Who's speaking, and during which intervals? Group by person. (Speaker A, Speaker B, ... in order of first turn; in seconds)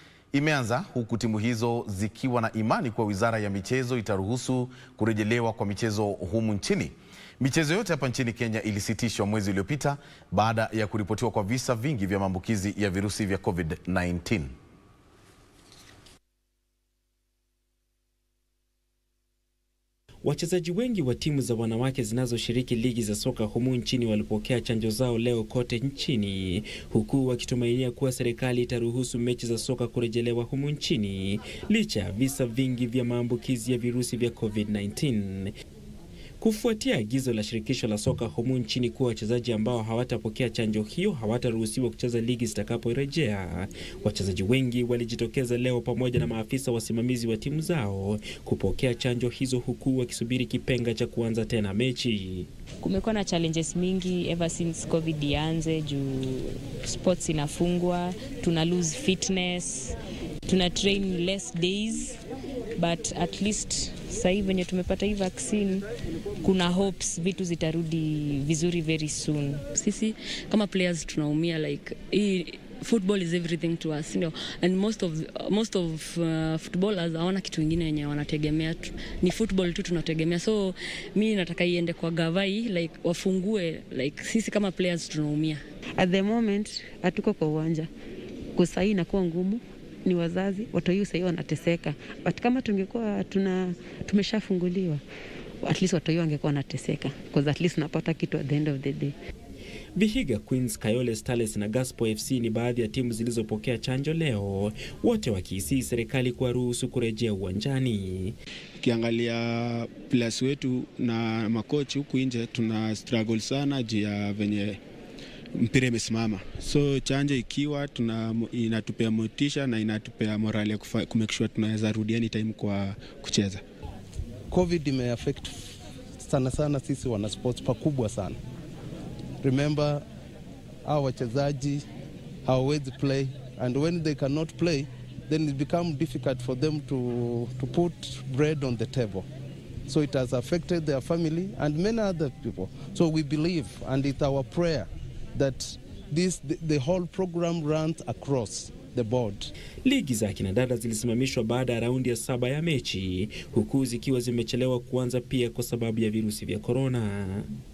Speaker A: 0.3-14.5
Speaker B: 20.2-35.5, 36.4-52.5, 100.0-108.3, 149.8-157.5
Speaker C: 52.8-62.2, 62.8-65.8, 66.4-69.6
Speaker D: 69.7-85.6
Speaker E: 86.0-87.9, 88.5-95.0, 95.6-99.1
Speaker F: 108.8-114.8, 115.5-123.6
Speaker G: 124.5-125.5, 126.2-128.4, 129.4-130.0, 130.8-131.8, 132.4-139.2, 139.9-149.5